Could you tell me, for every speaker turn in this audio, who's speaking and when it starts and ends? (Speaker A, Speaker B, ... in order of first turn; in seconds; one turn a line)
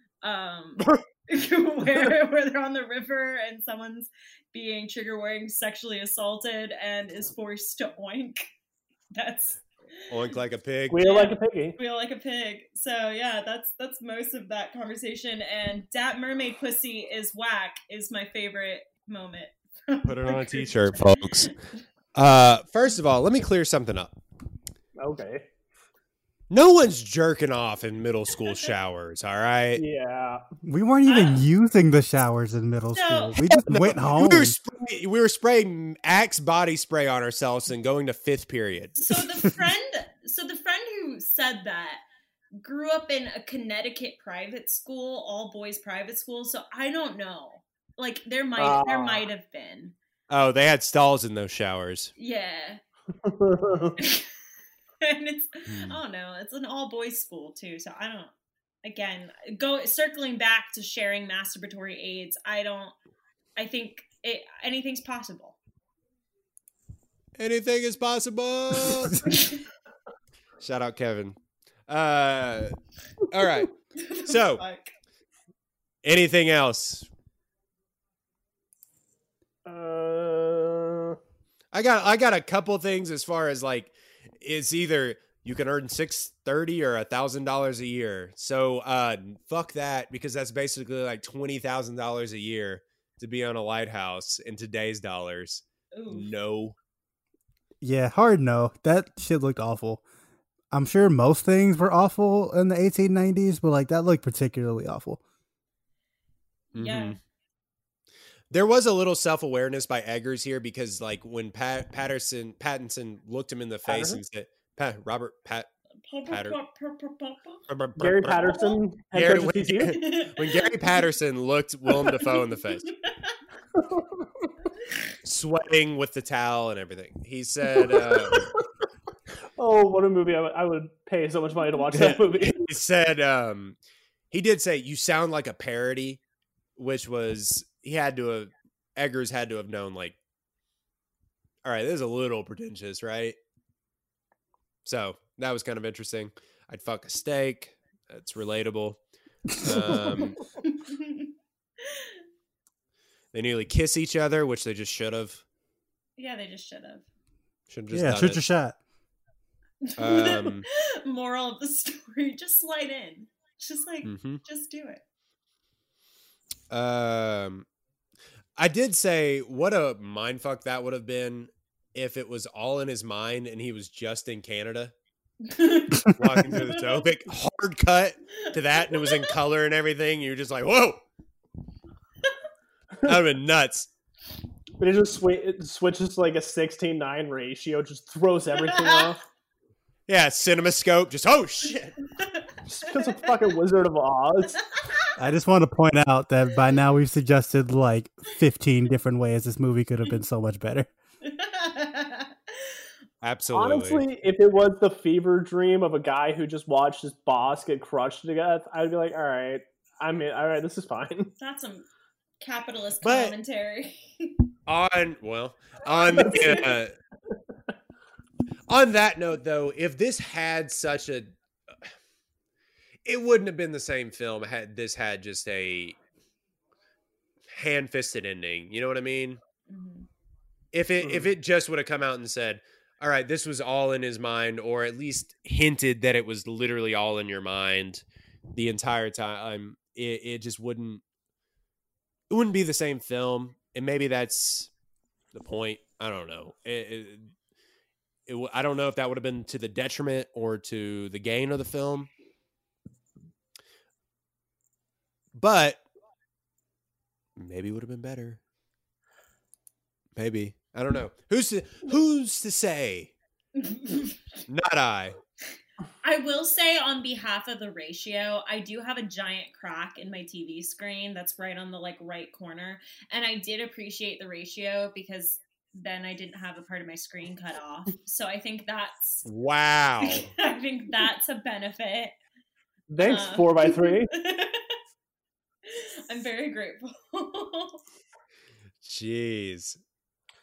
Speaker A: 0.2-8.5
Speaker A: 9.1-9.6
Speaker B: 10.1-11.0
Speaker C: 10.9-11.8
Speaker A: 11.0-21.5
Speaker B: 20.0-21.6
Speaker B: 22.1-24.2
Speaker C: 25.0-25.5
Speaker B: 26.5-29.8
Speaker C: 29.8-30.4
Speaker D: 30.6-34.6
Speaker A: 31.1-31.4
Speaker A: 32.9-33.4
Speaker B: 33.5-39.1
Speaker A: 39.0-42.0
Speaker A: 42.6-50.0
Speaker C: 48.6-49.3
Speaker B: 50.3-52.1
Speaker A: 52.2-52.8
Speaker C: 53.2-54.0
Speaker A: 54.0-54.3
Speaker A: 55.0-58.3
Speaker A: 58.8-63.0
Speaker A: 63.6-65.6
Speaker B: 67.4-69.3
Speaker A: 69.3-69.6
Speaker B: 70.6-72.8
Speaker B: 73.3-73.7
Speaker A: 74.0-74.9
Speaker B: 74.3-74.6
Speaker B: 76.0-77.1
Speaker C: 79.7-81.2
Speaker B: 81.7-96.8
Speaker A: 95.9-96.3
Speaker D: 97.8-100.0
Speaker D: 100.7-105.2
Speaker A: 106.7-107.2
Speaker B: 106.7-107.2
Speaker B: 108.5-115.7
Speaker C: 113.9-114.2
Speaker A: 116.1-117.6
Speaker B: 116.3-116.6
Speaker B: 117.7-122.9
Speaker C: 118.0-120.0
Speaker A: 118.4-118.8
Speaker A: 119.9-120.8
Speaker A: 122.1-122.3
Speaker A: 122.9-123.4
Speaker C: 123.8-124.5
Speaker B: 125.2-128.5
Speaker C: 127.7-128.6
Speaker C: 129.6-132.6
Speaker B: 131.9-133.8
Speaker B: 134.3-136.2
Speaker B: 136.8-140.2
Speaker B: 141.6-143.4
Speaker B: 144.8-149.0
Speaker B: 149.6-150.4
Speaker A: 150.6-151.3
Speaker A: 151.8-152.1
Speaker B: 153.3-155.4
Speaker A: 156.2-157.1
Speaker B: 157.7-158.4
Speaker D: 157.9-158.8
Speaker A: 159.8-165.0
Speaker B: 160.0-160.7
Speaker B: 164.0-164.4
Speaker B: 166.7-167.7
Speaker B: 168.6-174.9
Speaker A: 175.4-177.0
Speaker B: 176.2-181.0
Speaker A: 178.4-179.3
Speaker B: 183.1-183.9
Speaker C: 184.8-189.2
Speaker A: 188.7-189.1
Speaker B: 190.1-192.0
Speaker A: 192.2-192.5
Speaker C: 192.7-194.6
Speaker D: 195.2-200.9
Speaker A: 201.2-202.7
Speaker B: 203.2-204.1
Speaker C: 203.5-211.3
Speaker A: 211.4-211.9
Speaker A: 212.4-214.3
Speaker B: 213.0-213.3
Speaker B: 214.7-216.9
Speaker C: 216.1-216.7
Speaker B: 218.7-221.4
Speaker B: 223.1-226.0
Speaker B: 227.5-229.4
Speaker A: 229.7-230.1
Speaker B: 230.7-238.0
Speaker C: 231.0-231.3
Speaker B: 238.6-241.0
Speaker B: 242.3-244.7
Speaker B: 245.3-247.3
Speaker B: 248.3-252.1
Speaker B: 255.3-255.8
Speaker B: 257.4-258.4
Speaker B: 260.2-263.1
Speaker A: 263.6-264.2
Speaker B: 264.5-265.2
Speaker A: 266.0-279.3
Speaker B: 279.3-280.3
Speaker A: 280.0-282.1
Speaker C: 282.9-284.1
Speaker A: 283.0-284.8
Speaker A: 285.7-287.8
Speaker B: 288.8-289.8